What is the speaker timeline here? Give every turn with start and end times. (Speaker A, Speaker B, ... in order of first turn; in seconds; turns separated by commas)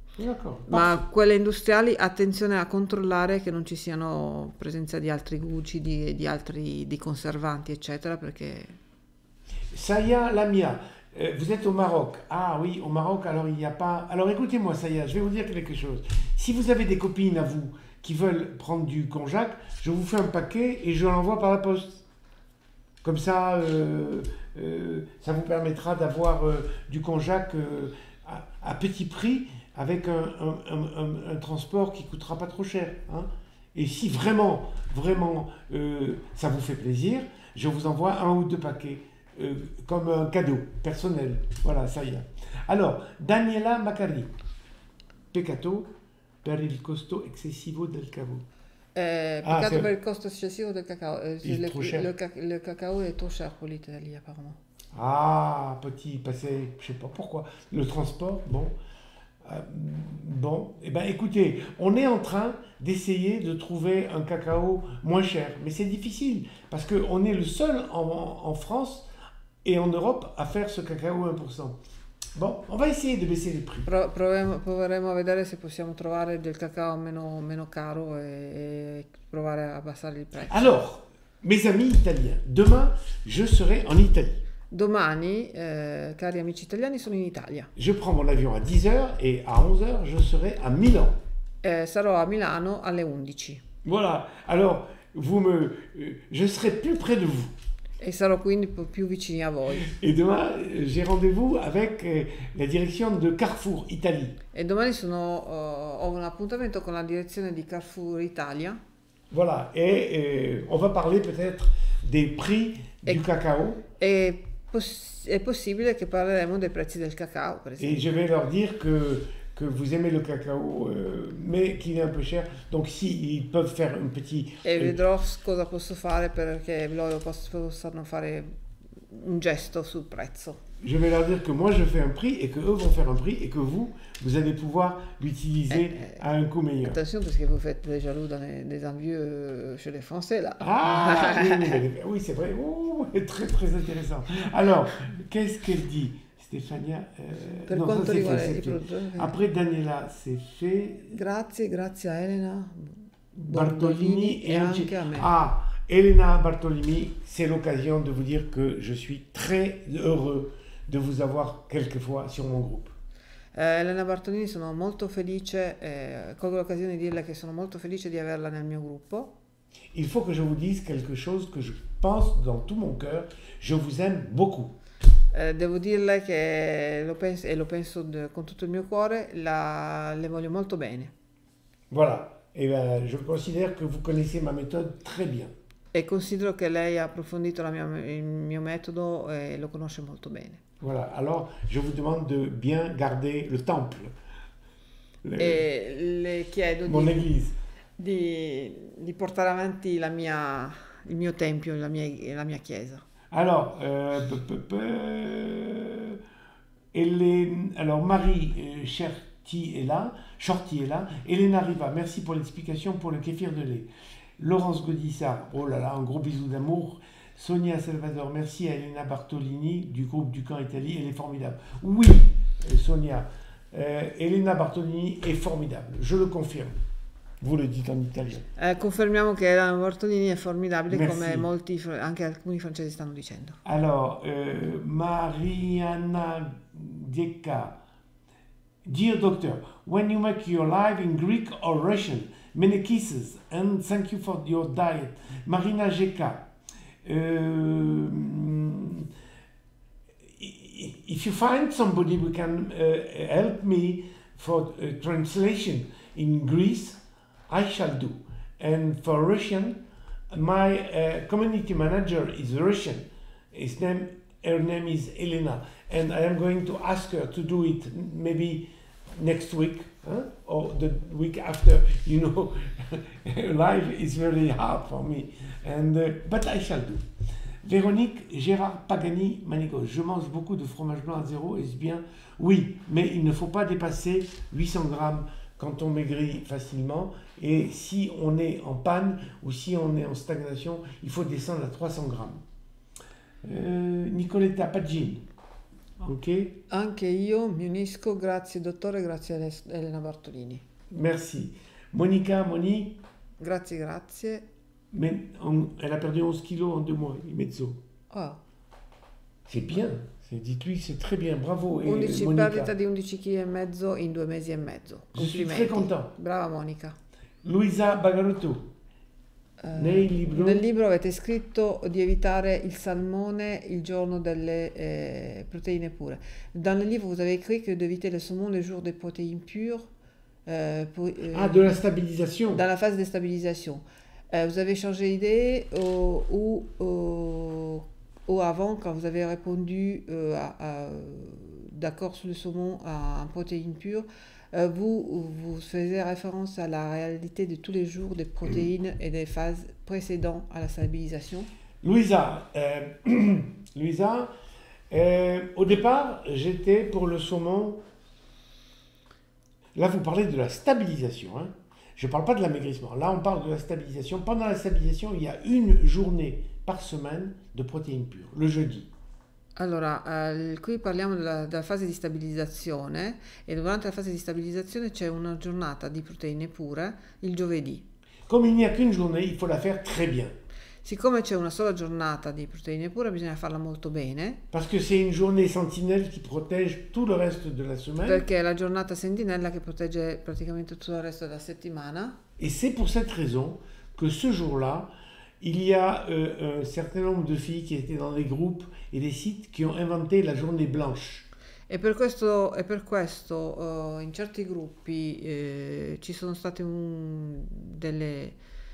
Speaker A: 0.2-1.0, Speaker B: 0.7-8.8, Speaker A: 9.7-22.0, Speaker A: 23.0-44.3, Speaker A: 45.3-45.9, Speaker A: 46.4-48.5, Speaker B: 49.0-54.6, Speaker A: 49.4-49.9, Speaker A: 51.4-52.1, Speaker A: 54.9-58.7, Speaker A: 59.5-69.1, Speaker A: 69.6-71.8, Speaker A: 72.4-73.9, Speaker B: 73.9-80.7, Speaker A: 80.5-84.4, Speaker B: 84.7-87.7, Speaker A: 87.8-91.2, Speaker B: 91.6-93.6, Speaker A: 93.8-97.5, Speaker B: 98.0-99.9, Speaker A: 99.8-104.4, Speaker B: 104.5-108.8, Speaker A: 109.3-113.8, Speaker B: 114.0-118.0, Speaker A: 117.8-125.0, Speaker B: 124.6-130.6, Speaker A: 130.8-137.0, Speaker B: 135.7-136.2, Speaker B: 136.9-141.8, Speaker A: 140.6-151.2, Speaker B: 147.7-149.3, Speaker B: 151.1-155.3, Speaker A: 153.3-162.9, Speaker B: 163.5-169.3, Speaker A: 169.9-174.8, Speaker B: 175.3-181.1, Speaker A: 181.9-185.5, Speaker B: 185.9-190.6, Speaker A: 190.8-194.1, Speaker A: 195.2-195.6, Speaker B: 195.4-197.3, Speaker A: 196.9-197.5, Speaker B: 198.0-203.1, Speaker A: 203.3-206.2, Speaker A: 206.9-226.8, Speaker A: 227.4-228.4, Speaker B: 228.6-233.6, Speaker A: 230.9-231.5, Speaker A: 233.7-237.8, Speaker A: 238.8-246.4, Speaker A: 247.0-249.1, Speaker A: 250.4-259.8, Speaker A: 260.3-277.1, Speaker A: 277.6-292.4, Speaker A: 293.4-295.2, Speaker A: 296.0-296.6, Speaker B: 296.7-300.6, Speaker A: 300.9-303.0, Speaker B: 303.4-304.5, Speaker A: 304.9-307.8, Speaker B: 308.1-308.4, Speaker A: 309.5-312.7, Speaker B: 311.8-317.0, Speaker A: 315.1-316.1, Speaker A: 317.4-318.7, Speaker B: 319.6-329.9, Speaker A: 319.7-320.6, Speaker B: 330.5-331.8, Speaker A: 331.3-332.6, Speaker B: 332.5-351.5, Speaker A: 351.8-354.3, Speaker A: 354.9-357.8, Speaker A: 359.8-368.9, Speaker B: 369.6-377.8, Speaker A: 378.3-380.3, Speaker B: 380.8-384.4, Speaker A: 384.5-388.2, Speaker B: 388.1-392.2, Speaker A: 392.4-401.3, Speaker B: 401.7-408.4